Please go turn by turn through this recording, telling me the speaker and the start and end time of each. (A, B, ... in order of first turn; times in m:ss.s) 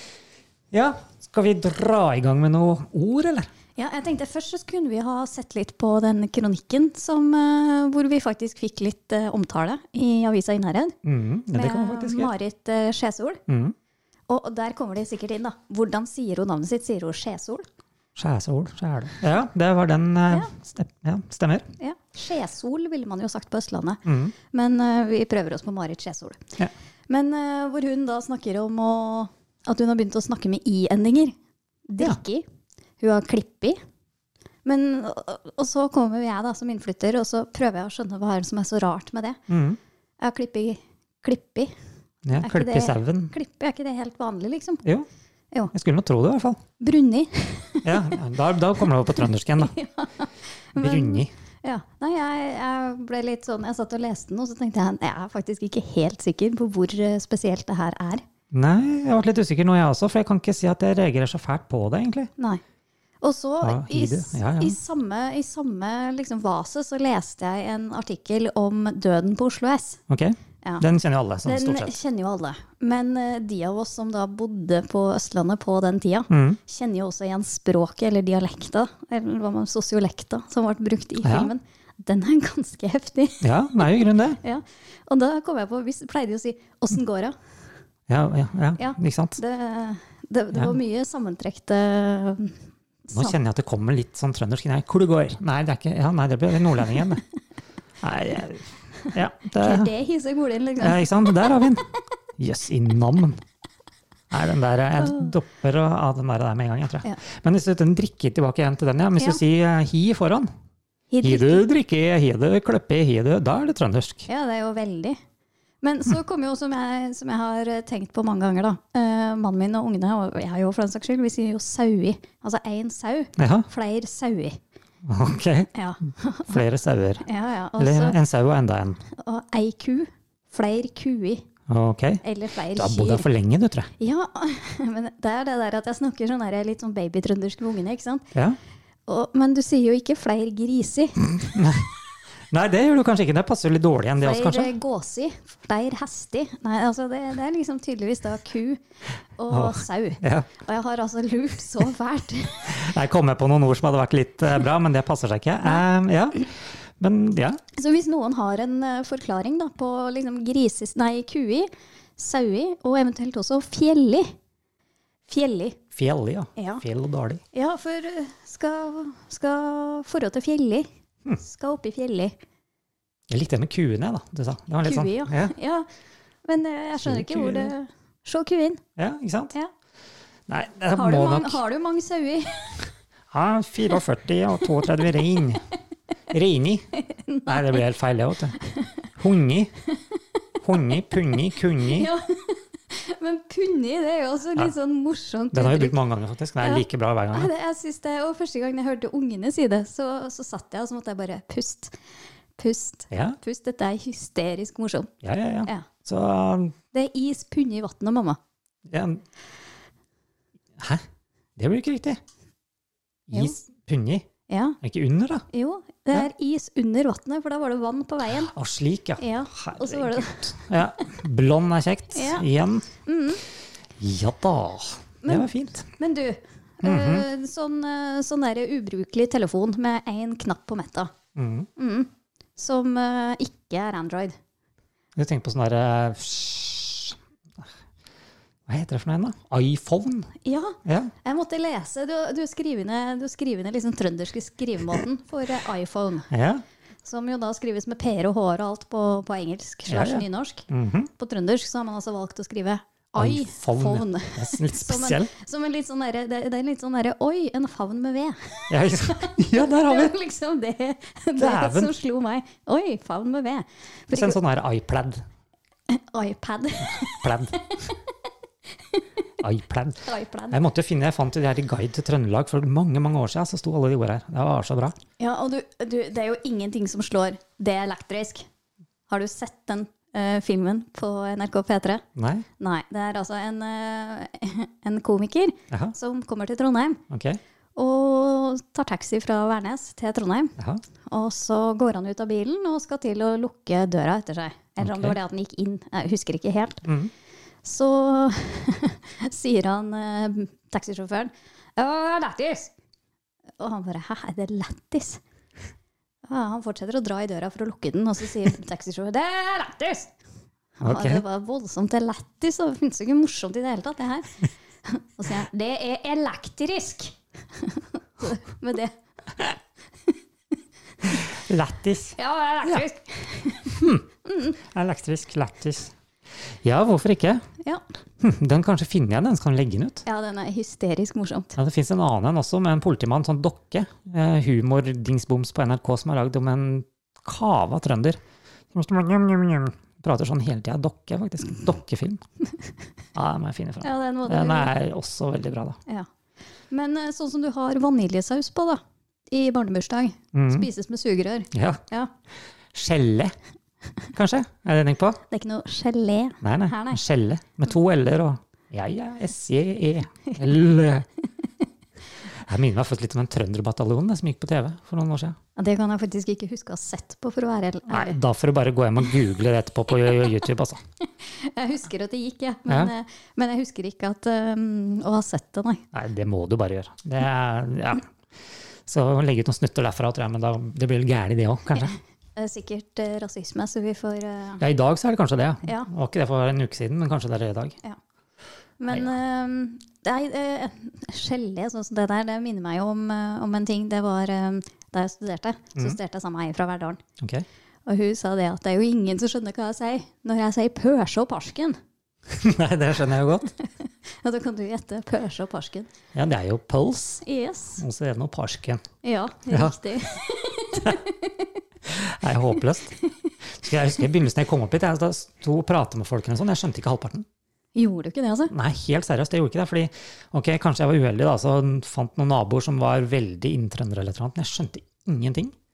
0:00.7-0:03.5 A
0:03.8-0:11.0 B
0:11.0-0:12.3 A
0:11.5-0:13.4 B
0:13.5-0:13.8 A
0:14.3-0:17.7 B
0:18.2-0:21.7 A
0:21.8-0:26.5 B
0:24.0-0:24.3 A
0:27.1-0:31.4 B
0:31.9-0:32.5 B
0:33.0-0:33.8 B
0:34.6-0:39.4 B
0:39.5-0:39.8 A
0:40.2-0:41.8 B
0:42.2-0:43.3 A
0:42.4-0:44.8 B
0:45.7-0:46.6 A
0:46.8-0:48.2 B
0:47.8-0:49.8 A
0:49.2-0:58.2 B
0:50.8-0:51.3 A
0:58.5-1:02.3 A
1:03.2-1:10.0 B
1:03.6-1:04.8 A
1:10.1-1:12.0 A
1:11.4-1:27.4 B
1:16.3-1:16.6 A
1:21.2-1:21.5 A
1:23.4-1:24.4 A
1:28.1-1:29.4 A
1:28.8-1:33.4 B
1:33.1-1:37.2 A
1:38.0-1:39.9 A
1:39.6-1:41.7 B
1:40.8-1:41.8 A
1:42.4-1:43.4 A
1:44.3-1:50.5 A
1:45.0-1:45.3 B
1:51.1-1:51.6 B
1:51.2-1:54.3 A
1:54.3-1:55.2 B
1:55.8-2:04.6 B
2:03.4-2:03.7 A
2:05.0-2:05.7 A
2:05.7-2:06.6 B
2:06.5-2:07.3 A
2:07.2-2:08.2 B
2:07.8-2:09.0 A
2:09.1-2:11.4 B
2:11.7-2:13.9 A
2:12.2-2:13.3 B
2:14.0-2:18.3 B
2:19.1-2:21.4 B
2:21.4-2:21.9 A
2:22.5-2:24.7 A
2:24.2-2:28.8 B
2:29.4-2:32.9 B
2:29.5-2:30.5 A
2:32.7-2:37.6 A
2:37.8-2:44.3 B
2:45.3-2:45.8 B
2:45.9-2:47.4 A
2:46.6-2:46.8 B
2:47.5-2:50.9 B
2:51.4-2:52.4 B
2:53.3-2:55.6 A
2:54.8-2:55.9 B
2:56.5-2:58.8 B
2:57.0-2:57.7 A
2:59.0-2:59.6 A
3:00.5-3:01.6 A
3:00.9-3:02.9 B
3:03.3-3:05.6 A
3:06.3-3:06.9 A
3:06.9-3:07.8 B
3:07.5-3:08.6 A
3:09.2-3:09.7 A
3:10.6-3:12.1 A
3:11.8-3:16.0 B
3:15.5-3:17.5 A
3:16.6-3:21.9 B
3:22.6-3:25.1 B
3:23.1-3:23.4 A
3:25.2-3:26.8 A
3:26.9-3:28.4 B
3:28.9-3:29.2 A
3:30.8-3:31.0 A
3:31.6-3:32.2 A
3:33.3-3:34.3 A
3:33.3-3:33.6 B
3:34.5-3:34.8 B
3:34.8-3:35.4 A
3:35.5-3:38.5 B
3:38.3-3:42.9 A
3:39.2-3:40.5 B
3:42.1-3:42.5 B
3:43.0-3:43.4 B
3:44.0-3:45.9 A
3:45.2-3:51.1 B
3:46.8-3:47.3 A
3:51.4-3:51.7 A
3:51.8-3:54.4 B
3:55.2-3:57.7 A
3:58.7-4:00.3 A
4:00.4-4:06.3 B
4:00.8-4:01.1 A
4:06.3-4:06.6 A
4:07.0-4:24.4 B
4:09.9-4:11.1 A
4:13.2-4:15.3 A
4:18.7-4:20.2 A
4:21.4-4:21.9 A
4:24.1-4:25.2 A
4:25.9-4:27.9 B
4:26.9-4:27.6 A
4:29.4-4:35.0 A
4:30.0-4:30.6 B
4:35.2-4:38.5 B
4:39.1-4:42.0 B
4:42.2-4:42.5 A
4:42.6-4:47.0 B
4:47.1-4:47.4 A
4:47.8-4:50.6 B
4:51.1-4:56.9 B
4:54.8-4:55.2 A
4:56.8-4:57.1 A
4:57.6-5:02.7 B
5:03.6-5:05.2 B
5:06.3-5:10.1 B
5:10.8-5:19.0 B
5:10.8-5:11.2 A
5:21.0-5:22.9 A
5:22.2-5:24.6 B
5:23.7-5:25.9 A
5:26.5-5:27.4 A
5:28.2-5:30.0 A
5:30.1-5:31.5 B
5:31.6-5:38.2 A
5:38.7-5:42.2 A
5:43.1-5:45.8 A
5:43.8-5:44.7 B
5:46.7-5:52.1 B
5:50.3-5:50.7 A
5:51.5-5:51.8 A
5:52.7-5:53.4 A
5:54.1-5:55.2 A
5:55.3-5:57.0 B
5:56.4-6:01.1 A
6:02.3-6:05.4 A
6:05.6-6:08.2 B
6:07.9-6:10.8 A
6:11.2-6:15.8 B
6:12.7-6:12.9 A
6:15.9-6:18.1 A
6:18.9-6:22.0 A
6:22.4-6:24.6 B
6:24.6-6:27.8 A
6:28.8-6:37.0 B
6:37.2-6:37.5 A
6:37.9-6:41.8 B
6:42.3-6:43.5 A
6:44.2-6:45.9 B
6:46.2-6:47.2 A
6:47.2-6:47.8 B
6:47.8-6:48.8 A
6:49.0-6:51.5 B
6:49.5-6:49.8 A
6:51.8-6:57.3 A
6:57.8-6:58.5 B
6:58.5-7:05.5 A